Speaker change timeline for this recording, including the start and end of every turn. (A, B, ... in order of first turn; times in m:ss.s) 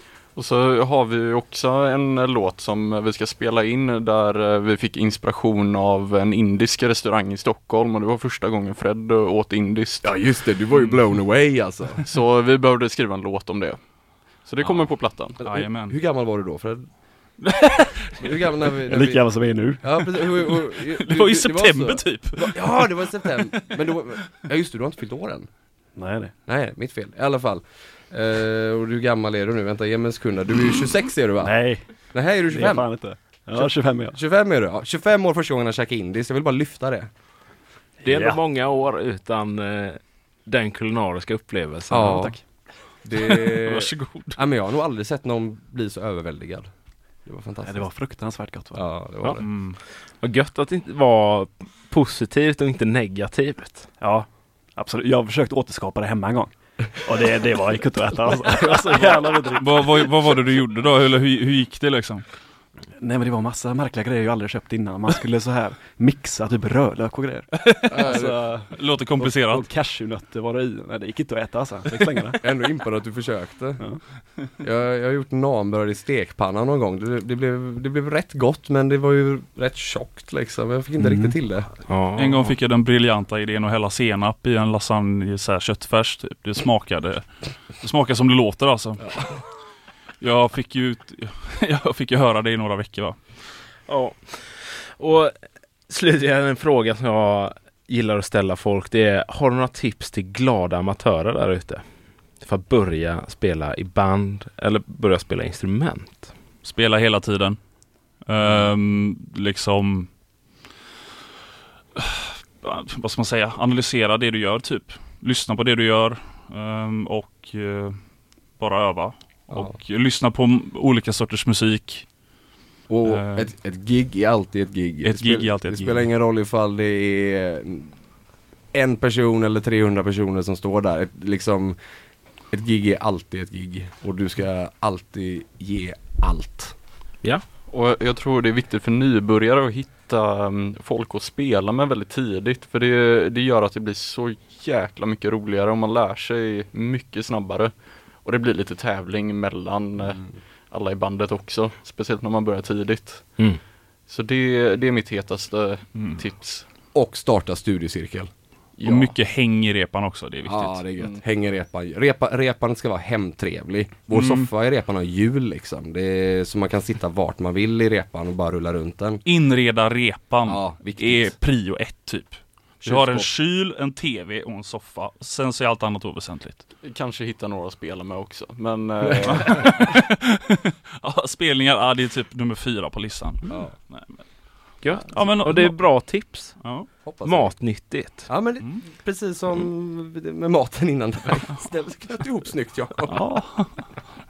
0:00.4-0:10.2 A
0:10.0-0:12.0 B
0:12.0-0:13.8 A
0:14.4-0:15.4 A
0:15.4-0:16.9 B
0:15.4-0:16.0 C
0:17.4-0:18.2 C
0:18.2-0:19.3 B
0:18.9-0:19.8 D
0:19.8-0:25.5 B
0:20.1-0:23.8 C
0:26.0-0:26.3 D
0:26.5-0:31.6 B
0:31.4-0:31.9 D
0:32.1-0:32.9 B
0:32.5-0:34.2 D
0:33.6-0:37.1 B
0:38.0-0:42.2 E
0:38.0-0:38.4 D
0:41.9-0:42.4 B
0:42.0-0:42.4 D
0:43.0-0:46.7 B
0:43.2-0:44.4 C
0:47.3-0:47.8 B
0:47.6-0:48.8 D
0:48.8-0:49.4 B
0:49.4-0:49.8 C
0:50.2-0:53.9 E
0:54.0-0:59.8 D
0:59.0-1:02.2 C
1:03.0-1:08.6 D
1:07.6-1:09.7 C
1:07.9-1:08.4 B
1:09.2-1:12.4 D
1:12.4-1:13.8 B
1:14.6-1:21.7 B
1:21.9-1:22.5 E
1:22.2-1:27.3 C
1:27.8-1:29.4 C
1:30.2-1:33.2 C
1:33.9-1:35.4 E
1:35.9-1:41.8 E
1:42.4-1:46.3 E
1:46.6-1:47.6 C
1:48.3-1:50.1 C
1:52.0-1:58.0 C
1:58.6-2:02.1 C
2:02.9-2:07.9 B
2:03.0-2:03.5 C
2:05.0-2:06.1 C
2:08.7-2:11.8 B
2:12.5-2:16.7 B
2:17.7-2:27.7 A
2:28.2-2:33.4 A
2:34.1-2:36.7 A
2:36.9-2:38.3 B
2:38.8-2:39.1 A
2:38.8-2:40.9 C
2:40.4-2:49.2 B
2:44.1-2:44.5 C
2:49.2-2:56.6 C
2:50.5-2:51.3 B
2:52.8-2:53.3 A
2:56.8-2:59.6 A
2:59.1-2:59.5 B
2:59.2-3:04.2 C
3:03.5-3:03.7 B
3:04.8-3:06.6 E
3:05.1-3:06.9 C
3:07.0-3:07.6 B
3:07.2-3:08.3 E
3:08.3-3:13.2 B
3:13.1-3:13.9 C